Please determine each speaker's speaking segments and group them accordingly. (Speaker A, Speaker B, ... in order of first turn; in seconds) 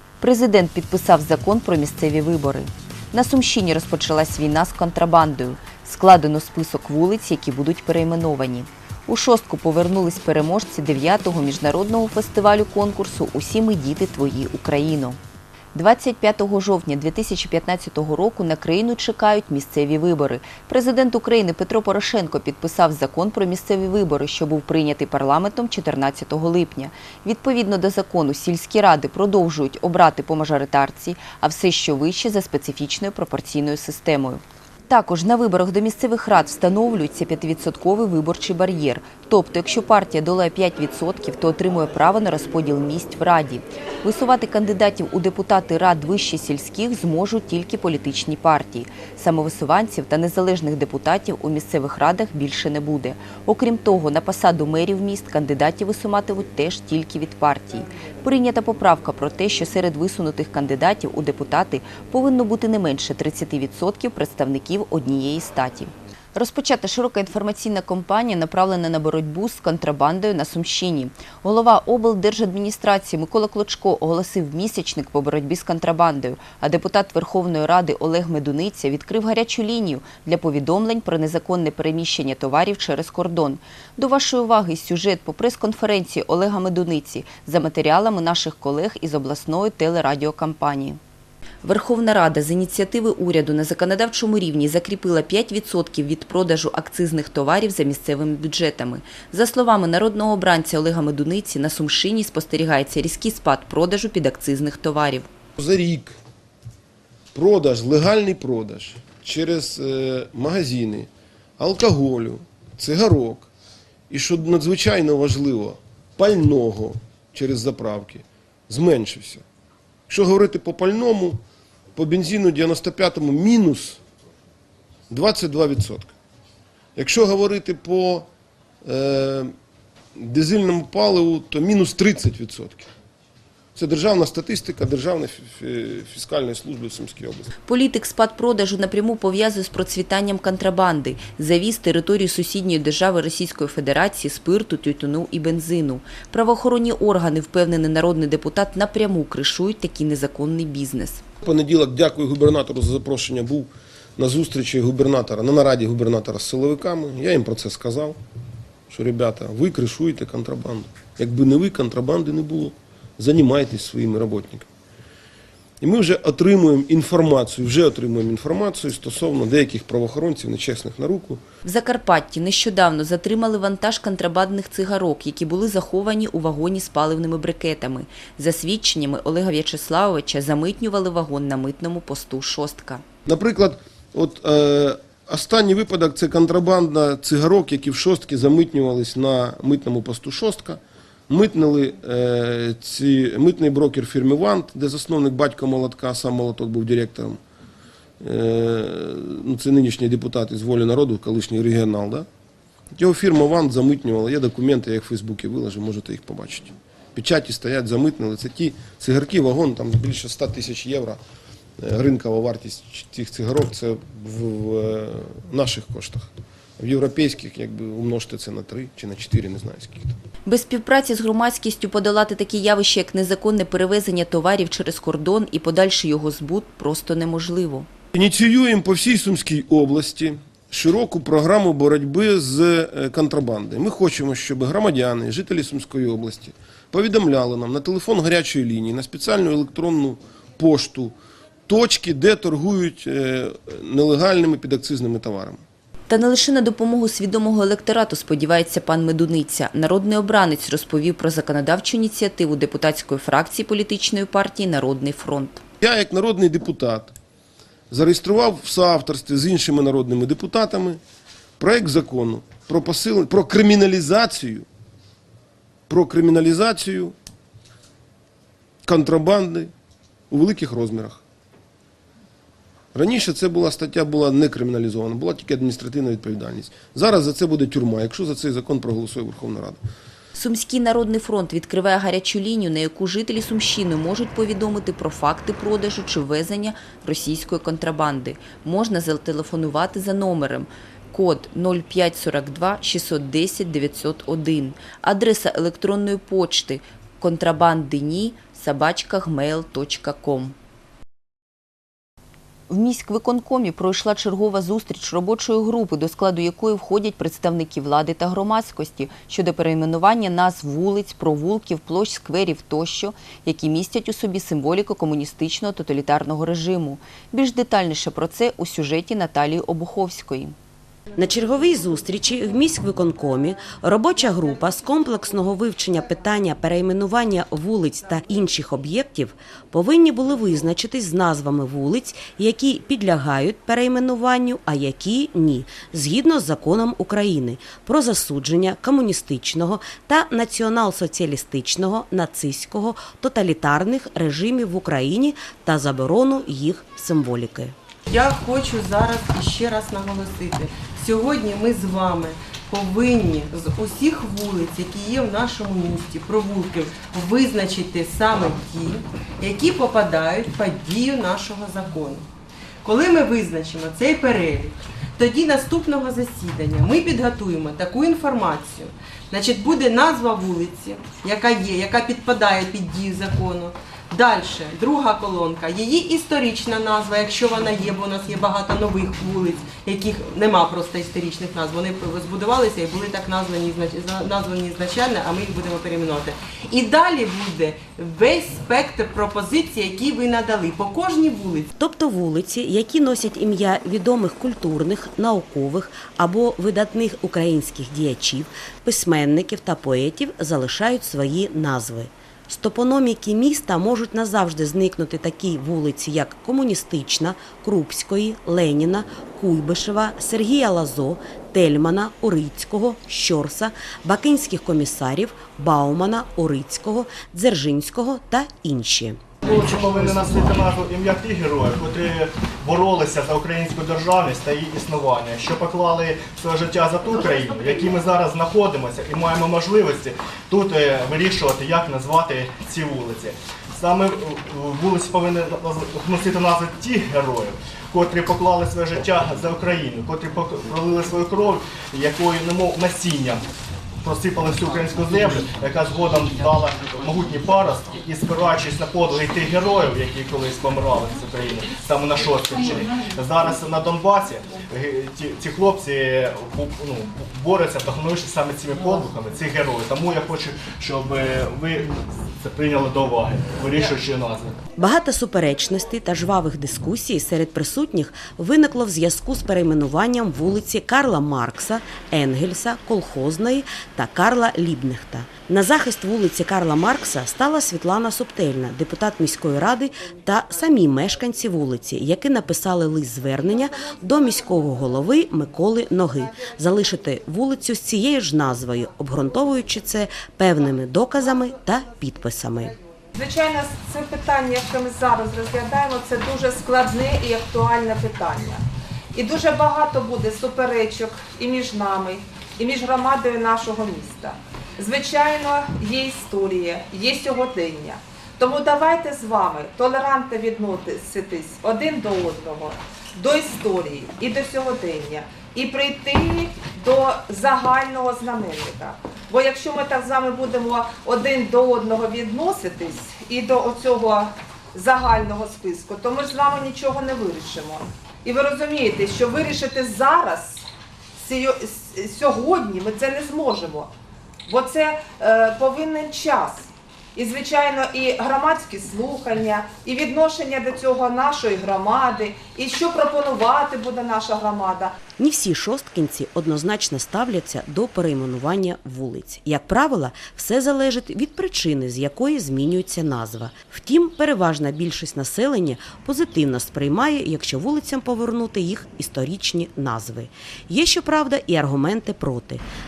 Speaker A: 0.2-15.2, 15.7-91.0, 91.6-105.3, 137.7-151.2, 171.6-183.0, 220.4-227.9, 246.1-255.6, 280.3-300.6, 302.7-320.5
Speaker B: 105.6-106.2, 107.3-113.5, 114.1-119.4, 120.1-121.4, 122.0-124.0, 125.1-126.1, 127.0-128.3, 128.8-129.5, 130.2-132.9, 133.8-137.5, 151.4-158.2, 158.9-164.7, 165.8-171.4, 183.2-197.4, 198.2-202.3, 202.9-211.2, 211.8-216.3, 216.8-220.1, 228.1-241.1, 241.7-245.6, 255.8-257.1, 257.9-261.0, 261.6-264.6, 265.9-267.1, 268.8-269.7, 270.3-271.2, 272.9-279.8
Speaker C: 321.2-347.7, 391.8-419.2, 464.8-492.8, 545.2-562.6
Speaker D: 348.1-362.3, 362.8-391.7
Speaker E: 419.4-443.4, 444.0-464.6, 493.7-497.8, 510.8-511.1, 511.9-512.4, 513.5-514.1, 533.0-533.2, 538.6-539.8
Speaker F: 493.1-498.6, 499.1-530.6, 531.2-533.9, 534.5-544.9